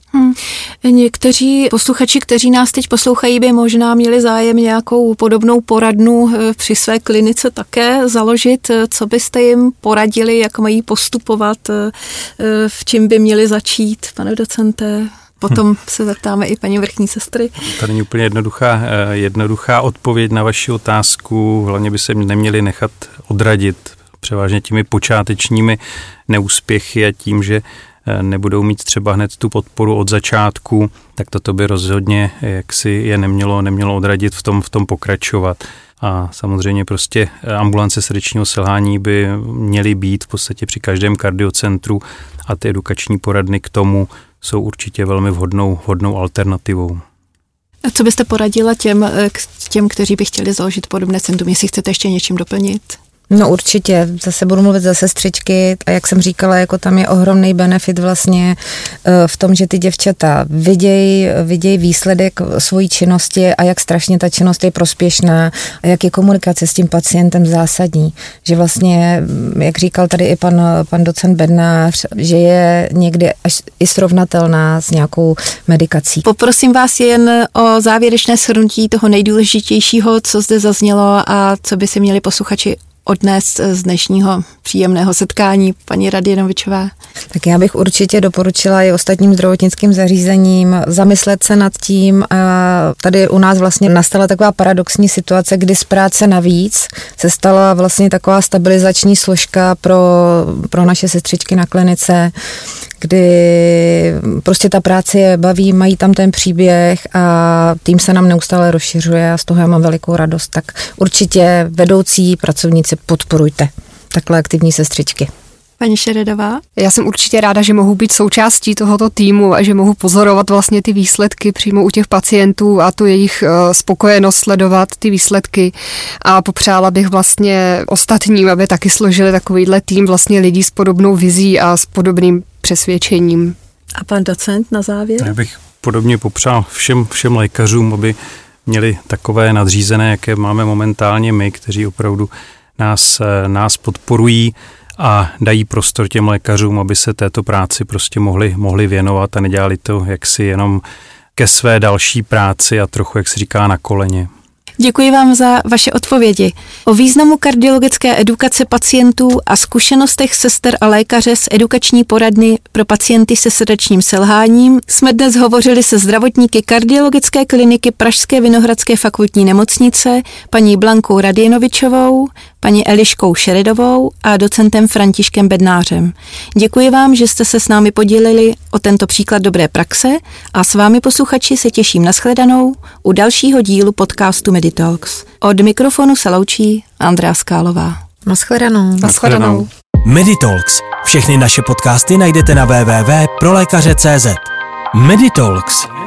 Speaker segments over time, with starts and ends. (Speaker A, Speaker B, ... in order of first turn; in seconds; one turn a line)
Speaker A: 0.1-17.5
Speaker B: 17.7-25.8
Speaker B: 26.3-47.0
Speaker A: 47.8-53.0
Speaker C: 53.3-76.2
Speaker A: 76.3-86.9
Speaker C: 87.3-102.3
Speaker C: 103.0-115.3
Speaker A: 115.8-116.6
Speaker D: 116.8-133.6
Speaker A: 133.9-135.3
Speaker B: 135.2-150.8
Speaker B: 151.4-154.3
Speaker A: 154.8-188.0
Speaker C: 188.3-189.0
Speaker D: 189.0-189.7
Speaker B: 189.0-189.7
Speaker E: 190.0-195.9